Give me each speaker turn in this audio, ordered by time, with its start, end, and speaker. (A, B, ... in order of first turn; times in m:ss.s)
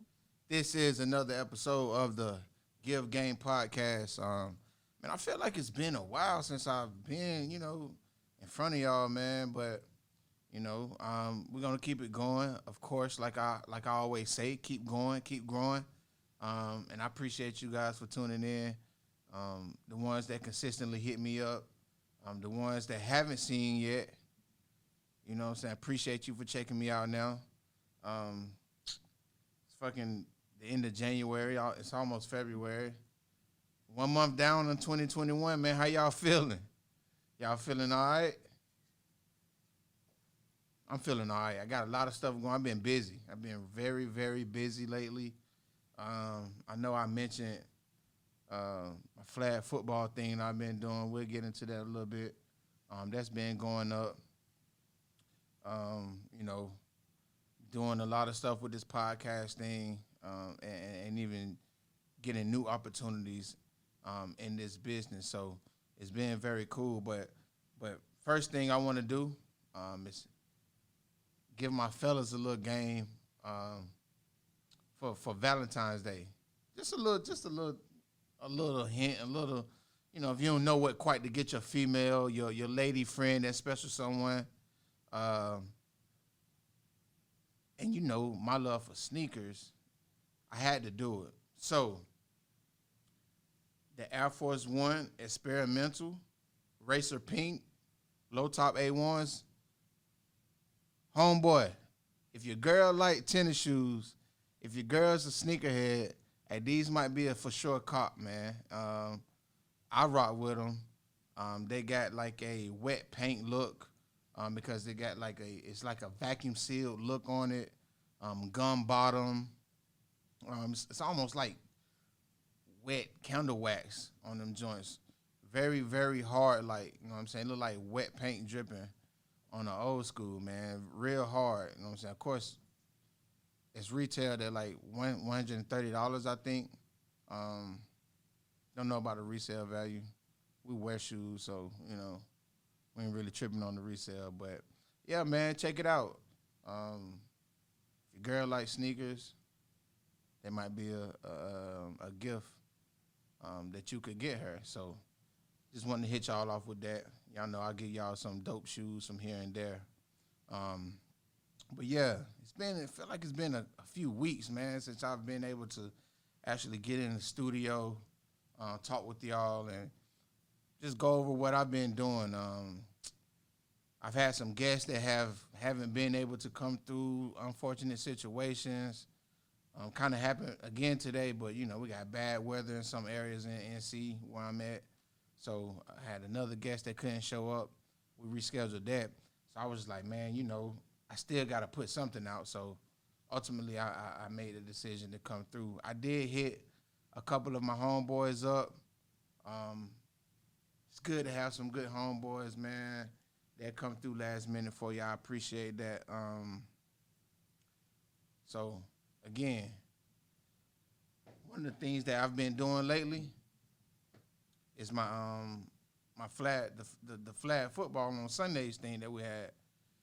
0:00.5-0:09.8 A
0:10.5-0:15.8 A
0:16.4-0:18.8 A
0:19.3-0:21.7 A
0:22.2-0:24.1 A
0:25.2-0:27.4 A
0:28.0-0:28.6 A
0:29.7-0:33.0 A
0:33.9-0:36.6 A
0:37.4-0:38.4 A
0:40.9-0:45.4 A
0:46.0-0:47.6 A
0:48.5-0:52.4 A
0:52.9-0:54.2 A
0:55.6-0:56.8 A
0:57.7-1:01.6 A
1:02.2-1:10.3 A
1:11.5-1:13.9 A
1:15.0-1:17.8 A
1:18.4-1:24.5 A
1:25.1-1:25.7 A
1:27.8-1:29.7 A
1:30.5-1:32.0 A
1:33.9-1:36.2 A
1:36.8-1:37.6 A
1:38.3-1:39.4 A
1:41.1-1:41.8 A
1:42.3-1:49.2 A
1:49.9-1:59.5 A
2:00.4-2:01.6 A
2:02.8-2:08.9 A
2:09.5-2:12.6 A
2:13.7-2:16.8 A
2:17.3-2:17.8 A
2:18.7-2:20.0 A
2:20.6-2:22.2 A
2:22.9-2:27.2 A
2:28.1-2:29.3 A
2:30.4-2:32.6 A
2:33.4-2:35.0 A
2:35.7-2:39.9 A
2:40.5-2:41.0 A
2:41.7-2:45.9 A
2:46.4-2:48.0 A
2:48.6-2:49.9 A
2:50.8-2:52.9 A
2:54.0-2:59.1 A
2:59.7-3:04.8 A
3:05.4-3:18.7 A
3:19.4-3:20.0 A
3:20.9-3:26.7 A
3:28.4-3:29.8 A
3:31.4-3:33.3 A
3:34.8-3:39.5 A